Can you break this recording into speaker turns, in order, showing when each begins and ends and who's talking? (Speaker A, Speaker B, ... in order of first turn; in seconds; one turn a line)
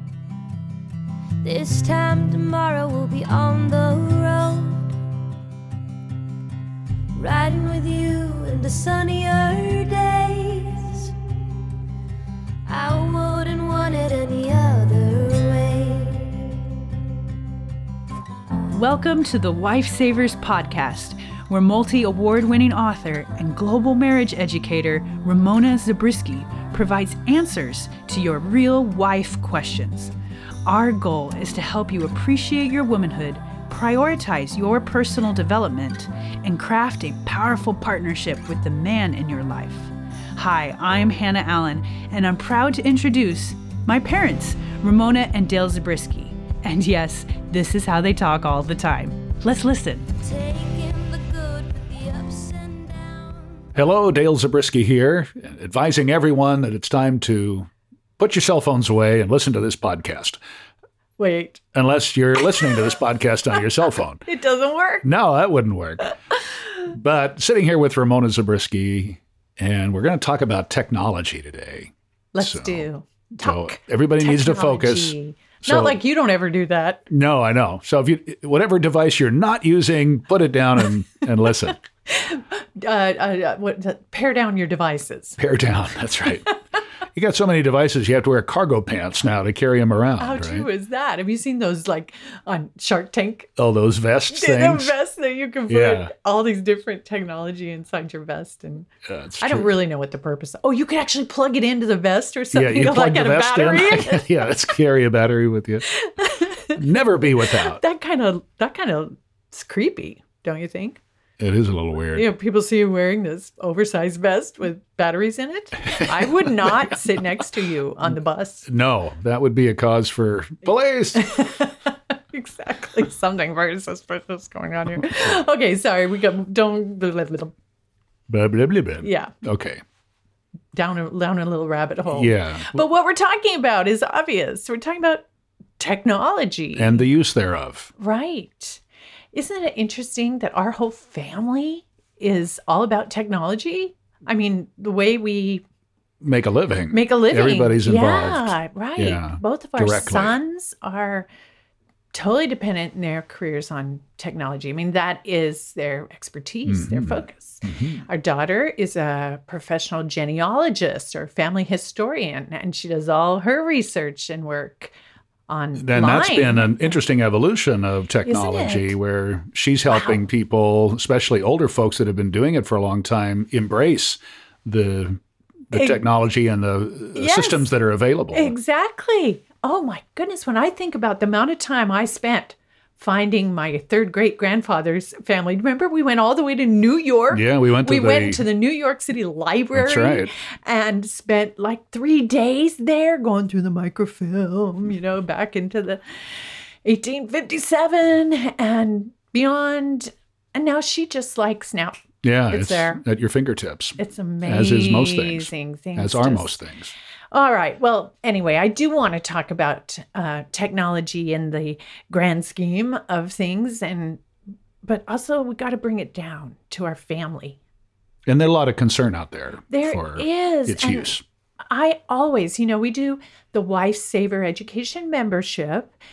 Speaker A: 1.4-4.9
Speaker A: 7.2-11.2
Speaker A: 12.7-16.4
Speaker B: 18.7-30.1
Speaker B: 30.7-50.1
Speaker A: 50.1-53.7
Speaker C: 53.8-60.4
Speaker B: 61.2-61.6
Speaker C: 61.7-64.2
Speaker B: 64.3-65.1
Speaker C: 65.0-66.1
Speaker C: 66.8-72.9
Speaker B: 72.3-77.0
Speaker C: 73.4-76.0
Speaker C: 77.1-81.8
Speaker B: 82.1-85.4
Speaker C: 85.4-86.5
Speaker C: 87.1-90.7
Speaker B: 90.2-93.5
Speaker C: 93.6-94.9
Speaker B: 94.3-98.9
Speaker C: 95.7-96.1
Speaker C: 99.1-99.7
Speaker B: 99.4-104.3
Speaker C: 102.5-105.9
Speaker B: 105.9-106.8
Speaker C: 106.8-107.8
Speaker B: 107.4-111.0
Speaker C: 111.4-112.3
Speaker B: 112.1-118.7
Speaker C: 116.1-116.9
Speaker C: 118.7-121.4
Speaker B: 121.2-127.5
Speaker C: 128.3-129.8
Speaker B: 129.0-129.3
Speaker B: 130.7-135.2
Speaker C: 132.1-132.8
Speaker B: 135.8-137.1
Speaker C: 136.8-137.9
Speaker B: 138.0-138.8
Speaker B: 139.3-145.6
Speaker C: 146.2-150.4
Speaker B: 146.9-151.3
Speaker B: 152.1-164.9
Speaker C: 156.7-158.1
Speaker B: 165.5-166.9
Speaker C: 165.8-178.5
Speaker B: 168.3-168.9
Speaker B: 169.9-170.2
Speaker B: 175.7-176.0
Speaker B: 177.2-177.7
Speaker B: 178.3-203.0
Speaker C: 187.3-188.4
Speaker C: 189.8-190.3
Speaker C: 202.2-206.9
Speaker B: 204.0-206.6
Speaker B: 207.3-214.2
Speaker B: 214.8-217.6
Speaker C: 218.3-221.2
Speaker B: 219.7-221.2
Speaker B: 221.7-225.9